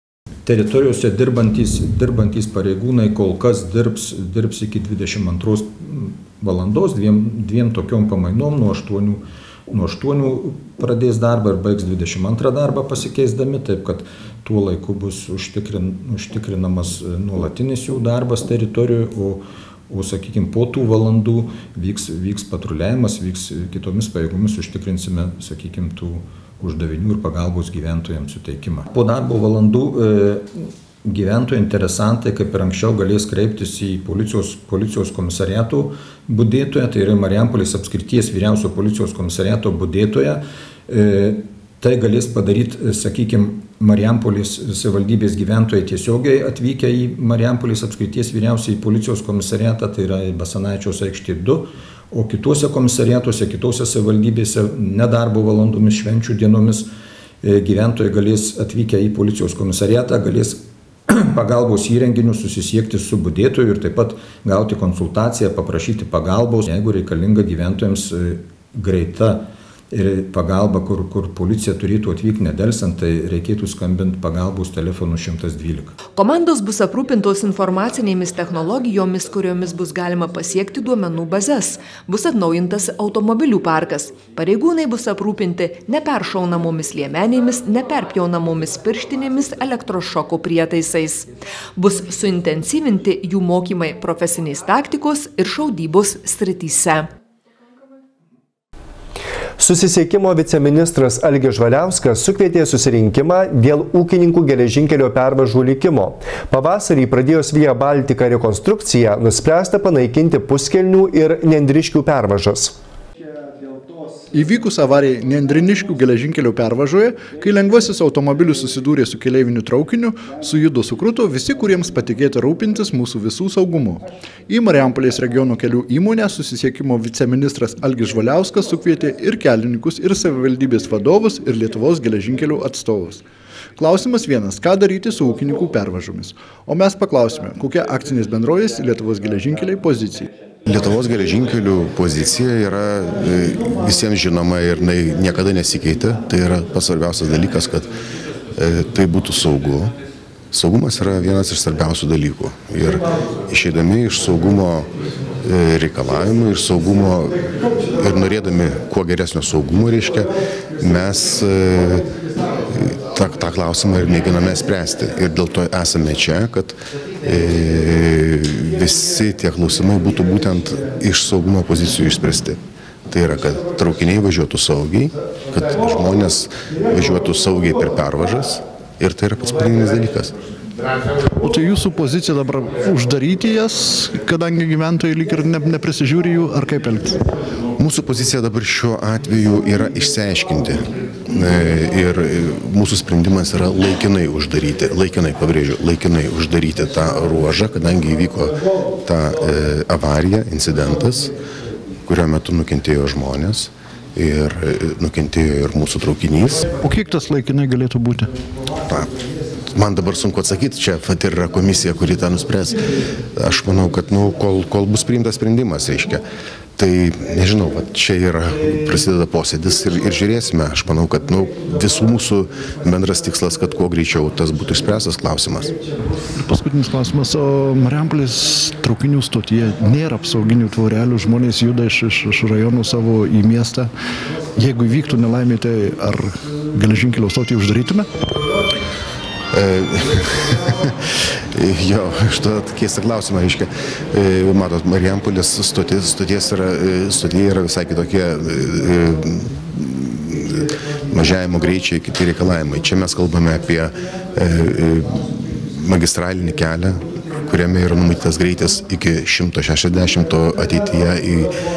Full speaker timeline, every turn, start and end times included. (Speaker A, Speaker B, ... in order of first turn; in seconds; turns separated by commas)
Speaker A: 0.5-56.9, Speaker A: 57.4-75.9, Speaker B: 76.1-97.1, Speaker C: 99.6-112.7, Speaker D: 114.3-133.2, Speaker D: 133.8-140.3, Speaker E: 140.7-147.9, Speaker E: 148.6-149.9, Speaker E: 150.5-154.9, Speaker E: 155.4-160.3, Speaker E: 160.8-162.0, Speaker E: 162.7-172.6, Speaker E: 173.1-180.3, Speaker D: 181.3-187.2, Speaker E: 187.8-198.5, Speaker E: 199.1-201.3, Speaker E: 202.1-206.7, Speaker D: 206.8-208.3, Speaker E: 209.7-212.8, Speaker E: 213.4-216.2, Speaker E: 216.8-225.7, Speaker D: 226.3-233.9, Speaker D: 234.6-238.1, Speaker E: 239.6-240.2, Speaker E: 241.6-250.6, Speaker E: 251.1-261.5